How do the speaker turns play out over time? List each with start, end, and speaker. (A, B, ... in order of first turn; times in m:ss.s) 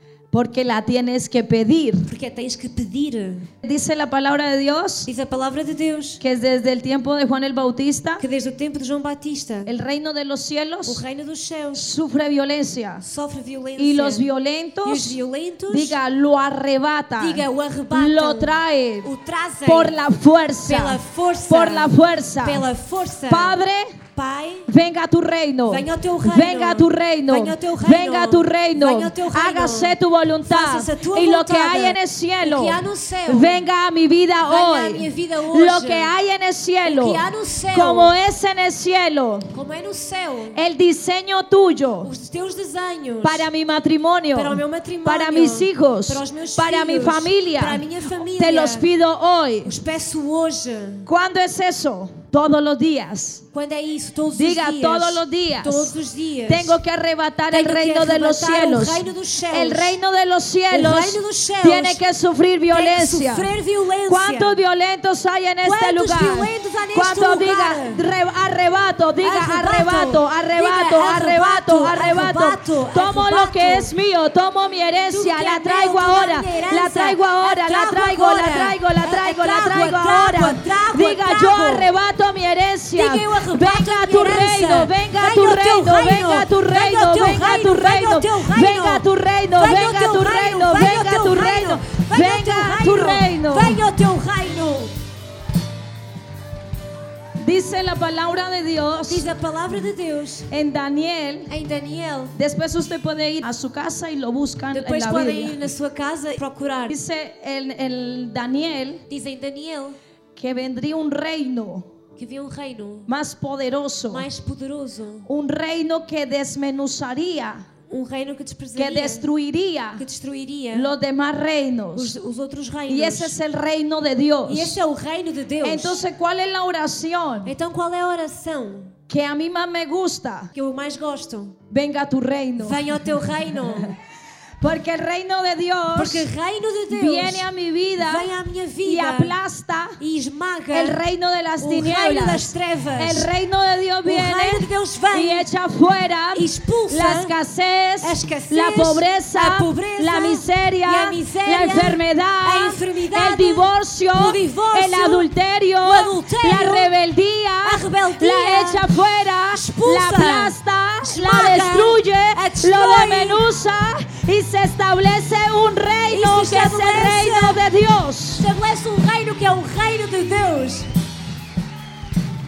0:00.3-0:02.1 A
0:02.0-0:03.5 B
0:03.6-0:05.1 A
0:05.0-0:06.2 B
0:06.2-0:08.2 A
0:08.2-0:09.7 B
0:09.6-0:11.0 A
0:10.8-0:11.8 B
0:11.7-0:13.0 A
0:13.0-0:14.3 B
0:13.8-0:15.2 A
0:14.8-0:16.0 B
0:15.7-0:19.1 A
0:17.2-0:20.0 B
0:19.6-0:22.6 A
0:20.6-0:23.6 B
0:23.3-0:24.0 A
0:24.1-0:24.7 B
0:24.7-0:39.5 A
0:25.7-0:33.6 B
0:34.4-0:36.1 B
0:36.8-0:38.1 B
0:39.5-0:40.6 B
0:40.5-0:42.1 A
0:42.0-0:43.4 B
0:43.2-0:49.7 A
0:44.3-0:48.9 B
0:49.6-0:51.1 B
0:51.0-0:53.4 A
0:53.5-0:56.8 B
0:54.3-0:55.9 A
0:56.5-1:03.5 A
0:57.5-1:00.0 B
1:00.7-1:02.0 B
1:02.7-1:04.5 B
1:04.1-1:33.8 A
1:05.6-1:08.0 B
1:09.2-1:13.9 B
1:15.1-1:21.9 B
1:22.9-1:34.9 B
1:37.4-1:39.3 A
1:39.1-1:40.5 B
1:40.5-1:41.5 A
1:41.5-1:42.4 B
1:42.4-1:45.6 A
1:44.7-1:47.0 B
1:46.9-1:49.0 A
1:49.1-1:50.0 B
1:50.4-1:51.9 A
1:52.2-1:53.1 B
1:53.1-1:54.2 A
1:54.1-1:55.3 B
1:55.3-1:57.6 A
1:57.9-1:59.3 B
1:58.8-2:00.0 A
2:00.0-2:00.9 B
2:00.7-2:02.1 A
2:01.9-2:03.4 B
2:02.9-2:04.8 A
2:04.4-2:06.0 B
2:05.6-2:07.5 A
2:07.4-2:09.0 B
2:09.1-2:10.5 A
2:10.5-2:11.6 B
2:11.7-2:12.8 A
2:12.6-2:14.0 B
2:14.6-2:16.2 A
2:15.9-2:17.5 B
2:16.9-2:18.3 A
2:18.0-2:19.3 B
2:18.8-2:20.0 A
2:20.0-2:21.0 B
2:20.7-2:48.4 A
2:21.6-2:23.3 B
2:24.0-2:25.5 B
2:26.3-2:27.3 B
2:28.0-2:35.3 B
2:35.8-2:36.9 B
2:37.6-2:38.9 B
2:39.5-2:43.4 B
2:46.1-2:47.6 B
2:48.4-2:50.9 B